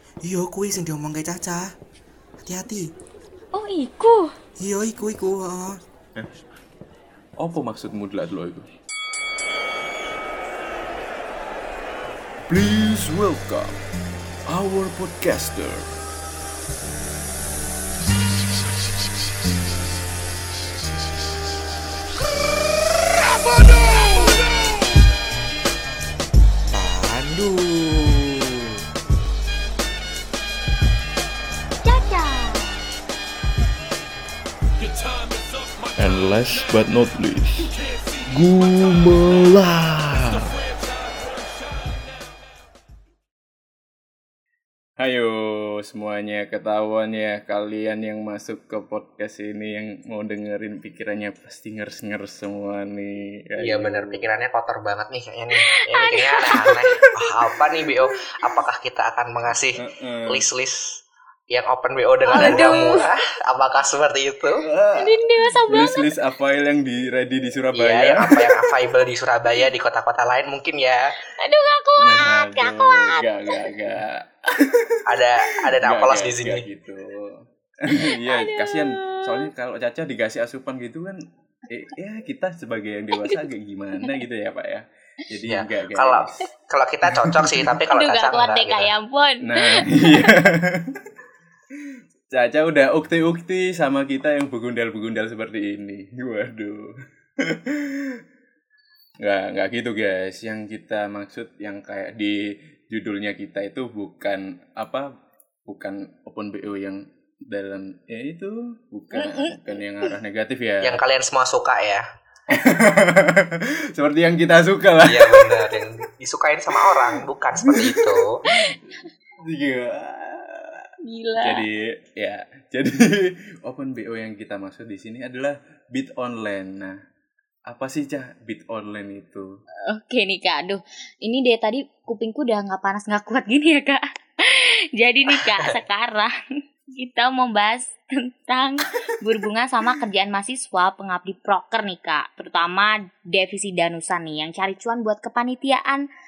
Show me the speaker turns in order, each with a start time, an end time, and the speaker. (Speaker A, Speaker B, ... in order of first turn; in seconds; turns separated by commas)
Speaker A: 0.2-1.7, Speaker A: 2.4-2.9, Speaker B: 3.5-4.3, Speaker A: 4.6-5.8, Speaker C: 7.4-8.7, Speaker C: 12.5-13.8, Speaker C: 14.5-15.9, Speaker B: 23.8-24.4, Speaker A: 26.7-28.4, Speaker B: 31.8-32.8, Speaker C: 36.0-37.7, Speaker C: 38.2-40.5, Speaker C: 45.0-54.2, Speaker D: 53.6-61.0, Speaker B: 55.5-56.8, Speaker C: 59.8-60.4, Speaker D: 61.5-64.6, Speaker B: 62.3-63.1, Speaker C: 62.3-63.0, Speaker C: 64.6-68.7, Speaker B: 65.0-66.1, Speaker D: 67.7-71.2, Speaker B: 71.3-73.7, Speaker C: 72.0-75.2, Speaker D: 75.0-76.7, Speaker C: 75.8-86.4, Speaker B: 77.9-79.5, Speaker B: 83.1-83.4, Speaker D: 85.5-88.9, Speaker C: 87.0-87.8, Speaker B: 87.9-90.3, Speaker C: 89.4-91.1, Speaker C: 91.8-98.2, Speaker C: 99.2-105.1, Speaker C: 105.7-111.0, Speaker B: 109.1-110.1, Speaker D: 110.8-112.0, Speaker C: 112.5-115.8, Speaker D: 115.0-118.4, Speaker C: 116.8-118.8, Speaker B: 118.4-118.8, Speaker C: 119.4-127.0, Speaker B: 121.0-121.6, Speaker C: 127.7-129.5, Speaker B: 129.9-136.3, Speaker B: 136.9-146.0